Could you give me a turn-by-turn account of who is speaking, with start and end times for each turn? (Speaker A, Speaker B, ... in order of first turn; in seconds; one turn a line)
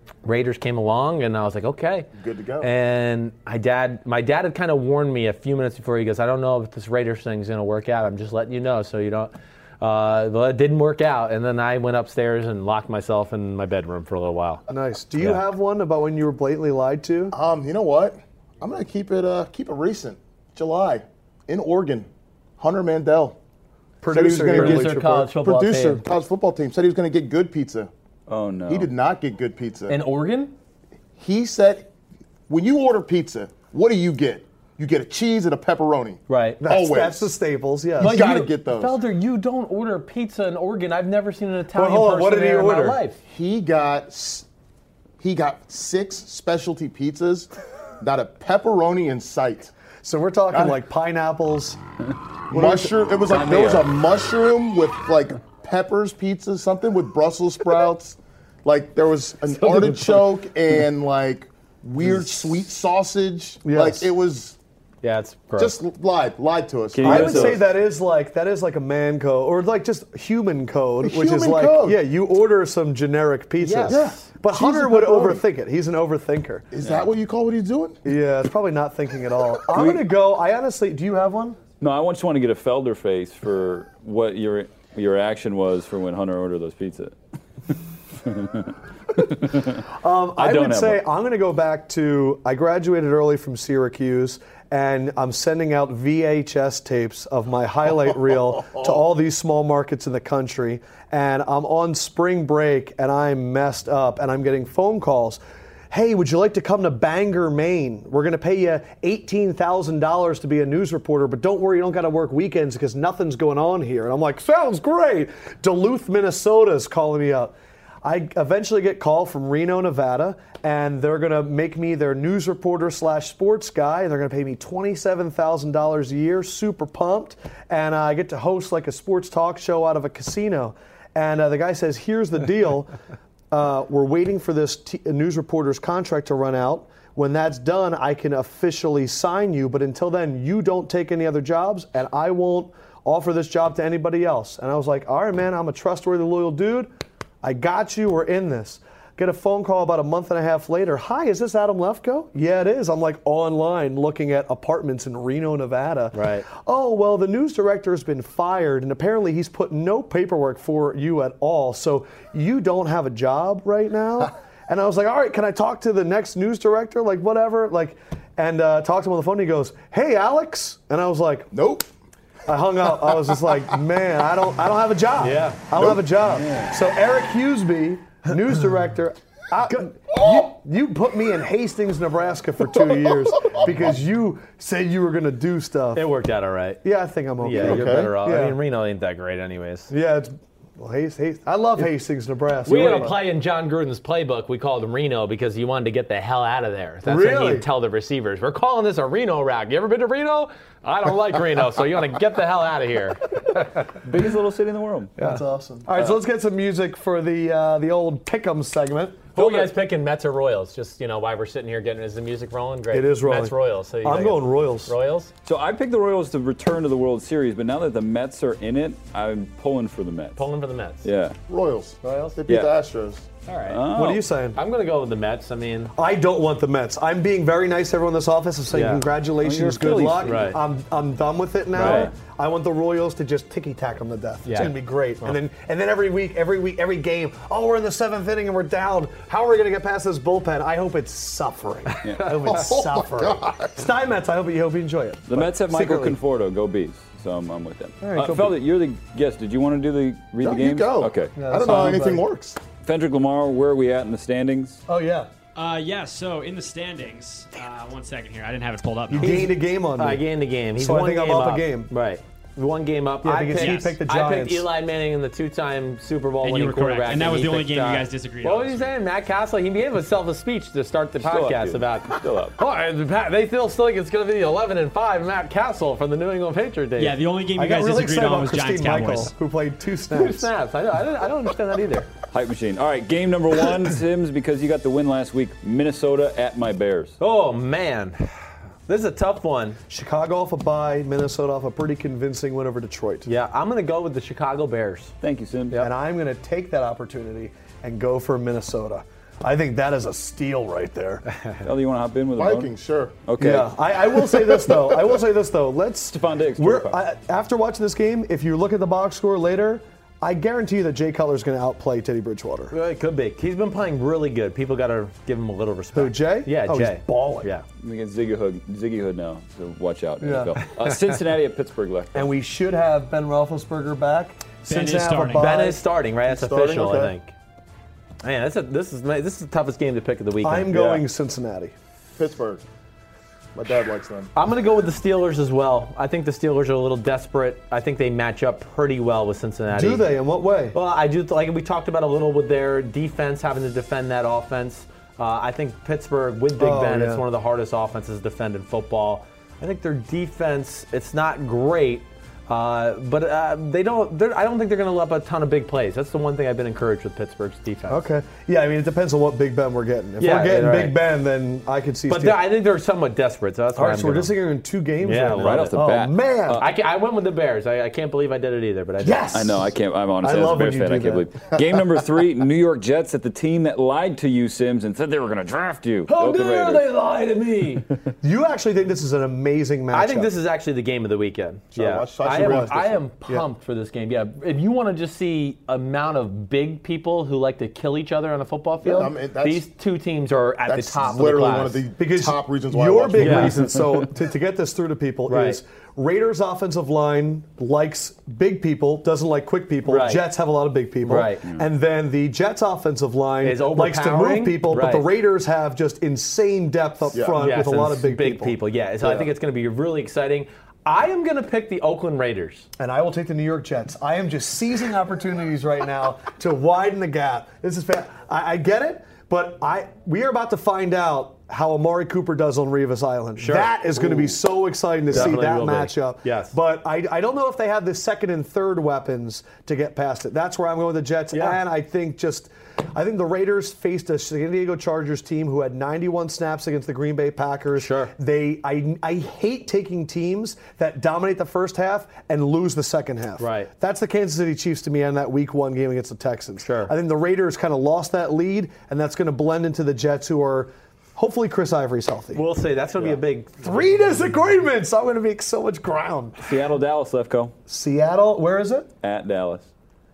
Speaker A: 0.2-2.1
Speaker B: 2.2-2.7
Speaker A: 2.6-14.6
Speaker C: 14.7-17.4
Speaker B: 17.3-22.1
Speaker B: 22.6-23.4
Speaker C: 24.0-25.4
Speaker B: 24.1-27.9
Speaker A: 24.2-26.0
Speaker D: 28.3-28.9
Speaker B: 28.7-30.0
Speaker A: 29.9-30.5
Speaker B: 31.2-31.9
Speaker B: 32.5-37.3
Speaker A: 36.3-36.6
Speaker C: 36.6-38.2
Speaker B: 38.0-39.0
Speaker A: 38.0-43.2
Speaker C: 41.7-43.0
Speaker B: 43.3-44.5
Speaker B: 45.2-47.5
Speaker B: 48.0-49.7
Speaker C: 50.0-51.8
Speaker C: 52.5-52.9
Speaker B: 52.5-64.6
Speaker D: 53.3-54.0
Speaker C: 63.6-64.1
Speaker A: 65.0-65.7
Speaker B: 65.6-67.6
Speaker D: 66.9-67.6
Speaker C: 67.0-76.7
Speaker B: 71.0-72.0
Speaker A: 73.6-74.3
Speaker B: 73.9-75.4
Speaker B: 76.7-78.0
Speaker C: 78.0-81.6
Speaker D: 79.7-80.1
Speaker D: 81.8-87.2
Speaker D: 88.2-91.0
Speaker C: 89.9-105.4
Speaker C: 105.9-132.9
Speaker C: 133.5-146.9
Speaker C: 147.4-171.5
Speaker A: 156.1-156.5
Speaker B: 171.5-171.9
Speaker C: 172.5-186.0
Speaker A: 175.2-175.6
Speaker B: 175.8-176.1
Speaker D: 176.3-176.7
Speaker B: 180.1-180.5
Speaker B: 182.8-183.7
Speaker A: 185.9-186.8
Speaker C: 186.8-188.6
Speaker A: 187.4-189.9
Speaker B: 187.5-188.2
Speaker C: 189.9-193.2
Speaker A: 192.7-203.7
Speaker C: 197.1-197.7
Speaker D: 204.0-205.2
Speaker C: 205.2-209.3
Speaker A: 209.4-215.3
Speaker D: 209.4-209.8
Speaker C: 212.9-214.9
Speaker D: 215.4-220.4
Speaker A: 220.4-221.1
Speaker D: 221.0-221.4
Speaker B: 221.5-223.3
Speaker A: 222.0-222.4
Speaker D: 222.5-222.8
Speaker A: 223.5-223.9
Speaker D: 223.7-224.2
Speaker C: 223.9-224.6
Speaker A: 224.6-225.9
Speaker C: 226.0-246.2
Speaker A: 228.7-229.1
Speaker D: 229.4-230.5
Speaker A: 230.2-230.6
Speaker A: 231.8-232.1
Speaker D: 231.8-232.1
Speaker A: 234.5-234.7
Speaker A: 242.0-242.6
Speaker B: 242.5-243.7
Speaker D: 245.3-252.0
Speaker C: 248.0-248.6
Speaker B: 250.4-252.6
Speaker C: 251.4-252.2
Speaker D: 252.8-254.8
Speaker C: 254.9-255.3
Speaker E: 255.6-259.5
Speaker C: 259.1-260.2
Speaker A: 259.2-277.2
Speaker C: 260.8-261.9
Speaker C: 263.2-264.7
Speaker E: 263.6-263.9
Speaker E: 266.4-268.9
Speaker D: 271.2-272.6
Speaker E: 277.0-279.3
Speaker C: 277.6-280.5
Speaker A: 280.1-282.1
Speaker D: 282.3-287.2
Speaker A: 287.2-288.3
Speaker A: 288.9-289.8
Speaker C: 289.9-293.3
Speaker A: 293.2-295.1
Speaker D: 295.2-295.8
Speaker C: 295.8-301.2
Speaker D: 301.6-302.7
Speaker B: 302.4-303.2
Speaker D: 303.2-303.8
Speaker C: 303.4-312.8
Speaker D: 306.1-307.0
Speaker A: 312.7-317.6
Speaker C: 315.9-317.5
Speaker D: 317.8-322.3
Speaker C: 320.2-320.6
Speaker C: 322.1-325.8
Speaker E: 324.7-325.6
Speaker A: 325.4-327.3
Speaker B: 326.3-327.1
Speaker A: 328.2-331.0
Speaker C: 330.4-331.7
Speaker B: 332.2-332.6
Speaker B: 333.6-334.3
Speaker A: 334.4-340.0
Speaker C: 339.7-340.8
Speaker A: 340.7-358.1
Speaker C: 346.6-347.2
Speaker C: 357.9-362.5
Speaker A: 360.2-361.0
Speaker A: 362.1-364.4
Speaker C: 363.8-366.6
Speaker A: 365.0-365.8
Speaker D: 365.3-366.7
Speaker A: 366.6-369.4
Speaker C: 369.0-369.7
Speaker D: 369.3-376.9
Speaker C: 370.2-371.4
Speaker A: 376.1-377.9
Speaker C: 378.2-380.3
Speaker A: 379.9-391.8
Speaker B: 381.8-383.0
Speaker C: 382.3-383.5
Speaker B: 388.9-389.6
Speaker B: 390.7-393.5
Speaker C: 392.0-408.6
Speaker A: 393.2-393.6
Speaker D: 393.7-394.1
Speaker A: 395.3-395.6
Speaker A: 399.9-400.3
Speaker A: 401.1-401.4
Speaker A: 403.4-405.1
Speaker B: 407.1-407.4
Speaker A: 407.4-412.7
Speaker C: 412.8-452.4
Speaker A: 423.4-423.7
Speaker A: 425.1-426.6
Speaker A: 431.3-431.6
Speaker A: 437.8-438.1
Speaker A: 443.4-443.7
Speaker A: 446.6-446.9
Speaker A: 452.3-453.9
Speaker C: 453.0-456.4
Speaker D: 456.4-457.6
Speaker C: 457.7-458.9
Speaker D: 459.0-459.7